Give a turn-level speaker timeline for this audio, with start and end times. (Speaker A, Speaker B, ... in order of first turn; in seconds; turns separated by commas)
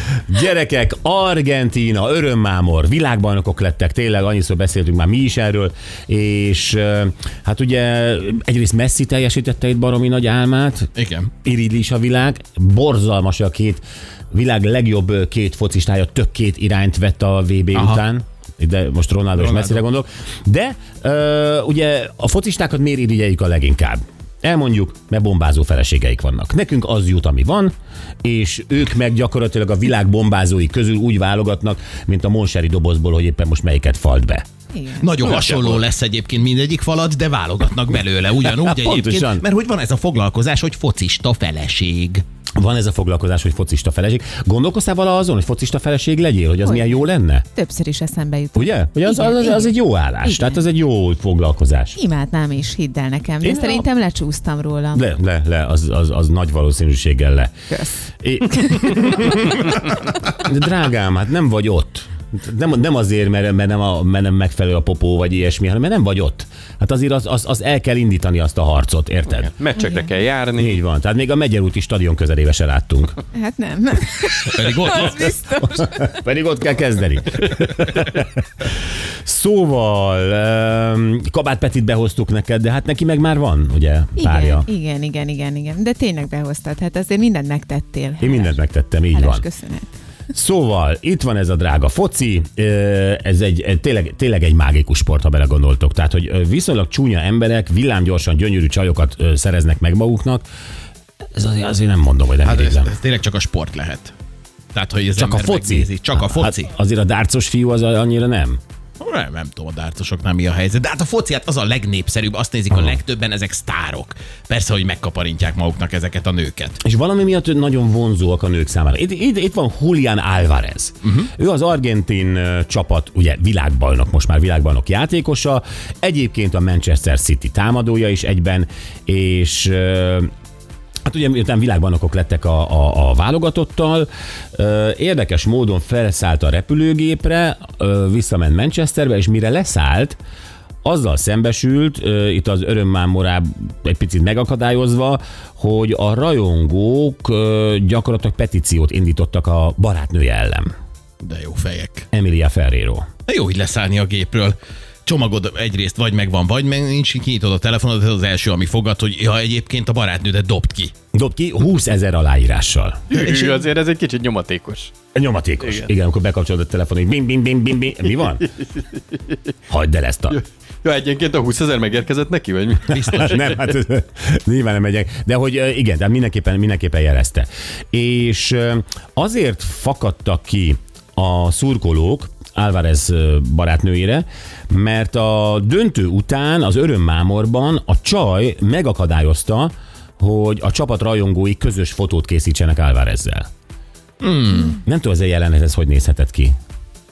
Speaker A: 0.3-10.9, Speaker B: 11.0-11.3, Speaker A: 11.4-34.4, Speaker B: 17.7-18.0, Speaker B: 19.3-19.8, Speaker C: 34.7-35.1, Speaker B: 35.0-42.2, Speaker A: 38.4-39.4, Speaker A: 42.5-47.4, Speaker C: 46.6-50.6, Speaker A: 48.5-52.0, Speaker C: 52.0-55.0, Speaker A: 53.4-53.8, Speaker A: 54.9-57.5, Speaker C: 57.7-58.0, Speaker A: 58.2-69.5, Speaker C: 58.6-59.0, Speaker D: 69.5-70.8, Speaker A: 70.5-73.2, Speaker C: 73.3-76.1, Speaker B: 74.5-75.3, Speaker A: 75.7-78.7, Speaker A: 79.2-84.7, Speaker C: 84.2-88.6, Speaker A: 88.2-89.4, Speaker C: 89.1-89.9, Speaker A: 90.3-100.5, Speaker A: 101.3-102.9, Speaker B: 102.4-104.1, Speaker B: 104.7-106.7, Speaker A: 105.1-108.6, Speaker B: 109.0-116.8, Speaker A: 116.8-130.3, Speaker B: 121.0-121.3, Speaker A: 131.0-140.2, Speaker A: 140.8-150.7, Speaker B: 151.2-152.1, Speaker A: 152.1-153.1, Speaker B: 153.3-160.9, Speaker A: 161.1-163.1, Speaker D: 163.1-164.9, Speaker B: 163.1-163.6, Speaker A: 165.1-168.5, Speaker D: 165.6-165.9, Speaker D: 168.6-169.3, Speaker A: 169.7-170.4, Speaker D: 170.3-173.4, Speaker B: 172.9-173.5, Speaker A: 173.1-193.5, Speaker B: 194.2-194.8, Speaker A: 194.7-196.6